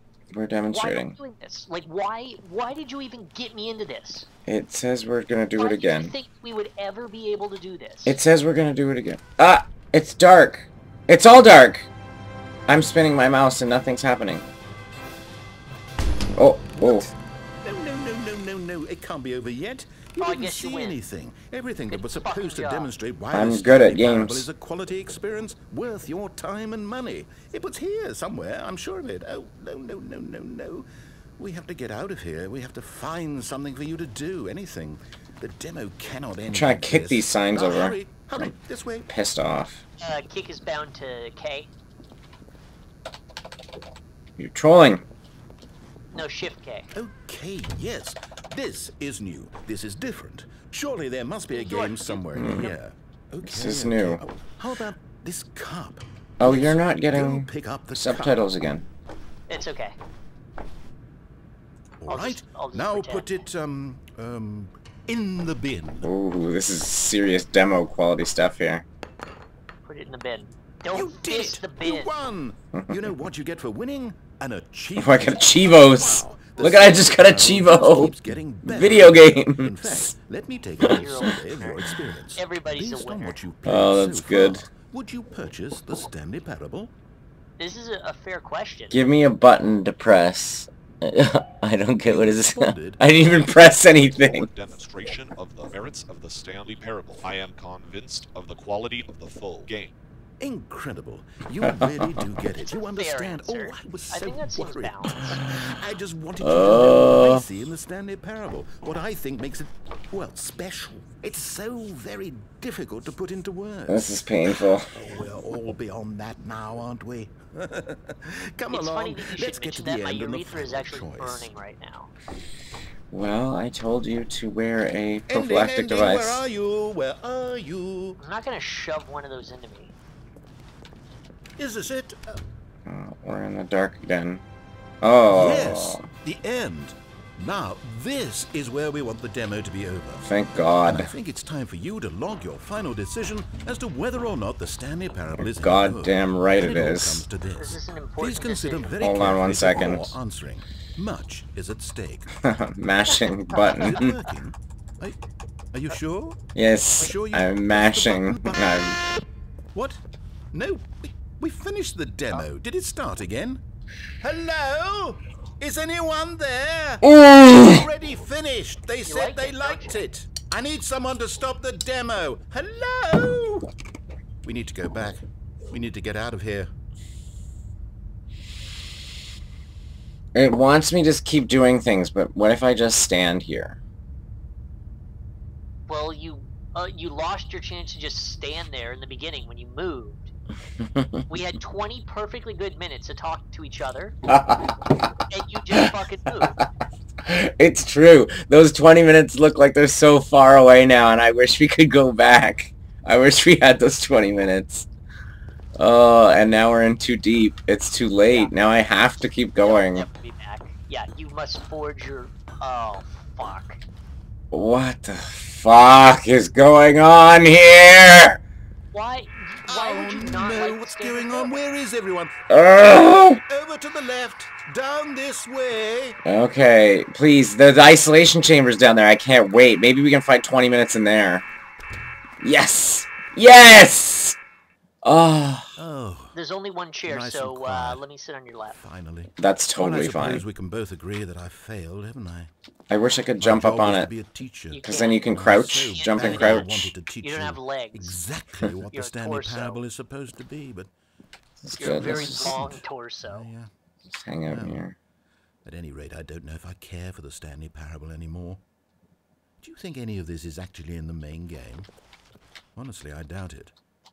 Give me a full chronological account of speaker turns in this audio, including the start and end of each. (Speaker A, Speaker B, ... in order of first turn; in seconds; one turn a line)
Speaker A: 0.3-1.1
Speaker B: 0.7-4.3
Speaker A: 4.5-6.1
Speaker B: 5.6-8.2
Speaker A: 8.1-11.9
Speaker A: 12.7-14.4
Speaker A: 16.4-17.1
Speaker C: 16.7-30.9
Speaker B: 20.2-21.0
Speaker B: 21.9-22.9
Speaker A: 23.3-24.5
Speaker C: 31.4-39.1
Speaker A: 36.5-38.5
Speaker A: 39.1-39.8
Speaker B: 40.0-41.7
Speaker A: 44.4-45.0
Speaker B: 46.1-46.9
Speaker C: 46.9-58.4
Speaker B: 51.5-52.7
Speaker A: 52.3-52.7
Speaker A: 53.4-54.2
Speaker A: 56.4-58.9
Speaker B: 59.5-60.0
Speaker C: 62.0-66.1
Speaker B: 62.1-63.3
Speaker A: 66.0-68.8
Speaker B: 69.9-72.1
Speaker C: 70.9-86.9
Speaker A: 72.7-73.1
Speaker A: 75.0-80.1
Speaker B: 76.6-76.9
Speaker B: 80.8-83.4
Speaker A: 83.7-84.7
Speaker B: 87.6-89.0
Speaker A: 88.9-94.5
Speaker C: 92.0-93.0
Speaker D: 93.9-99.9
Speaker C: 100.4-121.5
Speaker A: 101.6-102.3
Speaker B: 102.6-105.4
Speaker A: 106.4-107.5
Speaker A: 113.9-115.1
Speaker B: 118.7-122.1
Speaker A: 123.1-126.4
Speaker C: 125.3-128.2
Speaker B: 128.2-129.9
Speaker C: 131.6-132.4
Speaker A: 132.9-134.4
Speaker A: 135.0-136.1
Speaker C: 135.3-140.2
Speaker A: 140.2-141.1
Speaker C: 140.8-152.4
Speaker A: 145.4-147.3
Speaker B: 147.6-149.0
Speaker A: 149.0-150.2
Speaker A: 152.4-154.2
Speaker B: 153.5-154.1
Speaker C: 153.6-155.2
Speaker C: 155.7-156.4
Speaker A: 156.6-159.0
Speaker C: 157.0-158.9
Speaker C: 159.7-160.0
Speaker C: 160.5-163.6
Speaker C: 164.2-173.7
Speaker A: 167.0-167.8
Speaker B: 169.1-170.0
Speaker C: 174.4-176.7
Speaker A: 180.3-183.8
Speaker B: 185.9-190.3
Speaker A: 190.8-191.2
Speaker B: 191.3-194.2
Speaker A: 194.3-194.7
Speaker B: 195.3-196.6
Speaker A: 197.2-204.9
Speaker A: 205.8-210.1
Speaker B: 208.2-208.5
Speaker B: 209.6-213.8
Speaker A: 214.5-218.4
Speaker B: 218.9-221.6
Speaker C: 219.7-222.6
Speaker A: 222.5-223.4
Speaker C: 223.5-226.2
Speaker A: 226.2-231.4
Speaker A: 232.4-234.4
Speaker A: 235.0-235.7
Speaker C: 235.8-236.4
Speaker B: 236.3-238.8
Speaker C: 237.1-238.0
Speaker C: 238.7-242.5
Speaker A: 239.4-240.4
Speaker A: 242.9-244.1
Speaker C: 243.4-250.9
Speaker B: 244.7-245.3
Speaker A: 244.8-246.9
Speaker B: 245.9-248.2
Speaker B: 248.9-249.8
Speaker A: 251.6-252.7
Speaker B: 251.8-253.5
Speaker C: 251.8-253.7
Speaker A: 254.1-255.0
Speaker C: 254.5-254.8
Speaker C: 255.7-258.6
Speaker C: 259.6-261.9
Speaker C: 262.8-263.8